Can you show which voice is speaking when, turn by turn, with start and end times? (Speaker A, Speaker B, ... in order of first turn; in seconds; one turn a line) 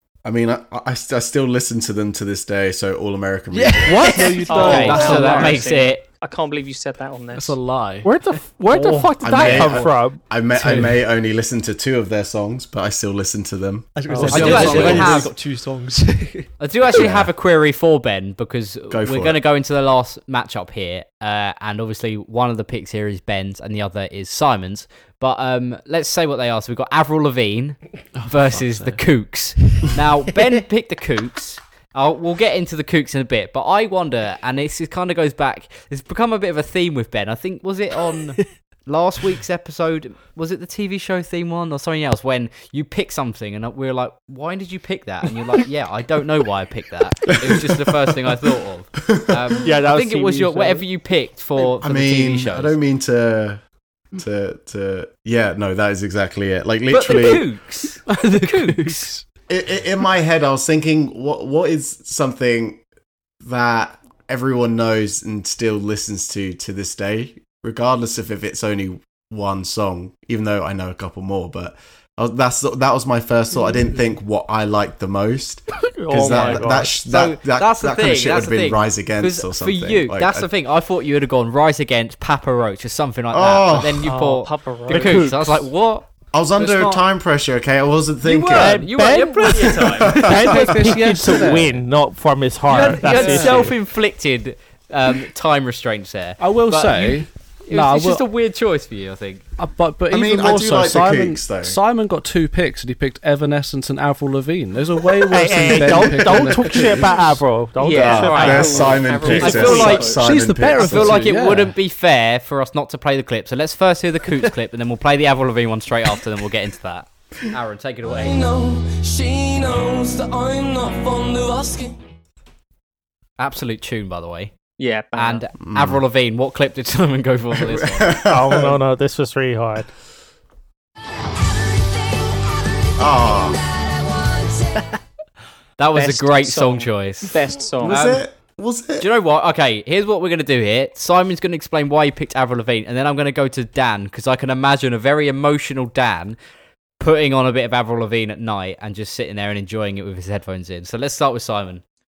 Speaker A: 0.2-4.2
Speaker B: 3.5-5.6
Speaker C: 3.9-5.7
Speaker D: 4.4-5.4
Speaker E: 4.5-7.6
Speaker F: 4.6-6.0
Speaker C: 7.3-9.9
Speaker D: 8.0-10.2
Speaker A: 9.2-15.1
Speaker C: 10.6-11.0
Speaker B: 13.9-16.5
Speaker D: 14.1-14.4
Speaker C: 14.2-15.3
Speaker F: 14.3-15.3
Speaker F: 16.6-52.8
Speaker A: 16.9-17.3
Speaker A: 18.9-19.4
Speaker C: 28.1-29.0
Speaker A: 49.1-49.5
Speaker D: 49.6-50.8
Speaker A: 51.6-53.6
Speaker A: 54.1-57.5
Speaker F: 56.9-59.1
Speaker C: 58.1-59.2
Speaker A: 59.5-62.8
Speaker A: 63.4-80.5
Speaker D: 75.8-76.9
Speaker F: 76.2-86.0
Speaker A: 83.3-84.1
Speaker D: 84.0-84.3
Speaker E: 84.2-85.3
Speaker D: 84.9-85.4
Speaker A: 86.3-88.8
Speaker C: 86.6-87.0
Speaker F: 88.2-90.8
Speaker D: 88.5-93.7
Speaker A: 89.8-90.6
Speaker C: 90.2-91.8
Speaker F: 92.7-99.4
Speaker C: 92.7-93.7
Speaker C: 96.4-98.2
Speaker C: 99.6-107.4
Speaker A: 100.1-101.8
Speaker D: 105.3-109.3
Speaker E: 107.8-110.3
Speaker A: 107.9-111.3
Speaker F: 108.2-108.7
Speaker C: 109.2-111.8
Speaker F: 109.3-110.2
Speaker F: 110.8-118.3
Speaker G: 118.0-122.0
Speaker F: 123.4-124.5
Speaker E: 124.8-125.5
Speaker F: 125.2-128.1
Speaker A: 125.6-126.0
Speaker A: 127.6-128.8
Speaker D: 128.3-129.9
Speaker G: 131.5-134.8
Speaker A: 133.0-133.6
Speaker F: 135.8-138.2
Speaker E: 135.9-138.0
Speaker A: 137.8-139.1
Speaker F: 139.0-146.4
Speaker F: 147.0-151.8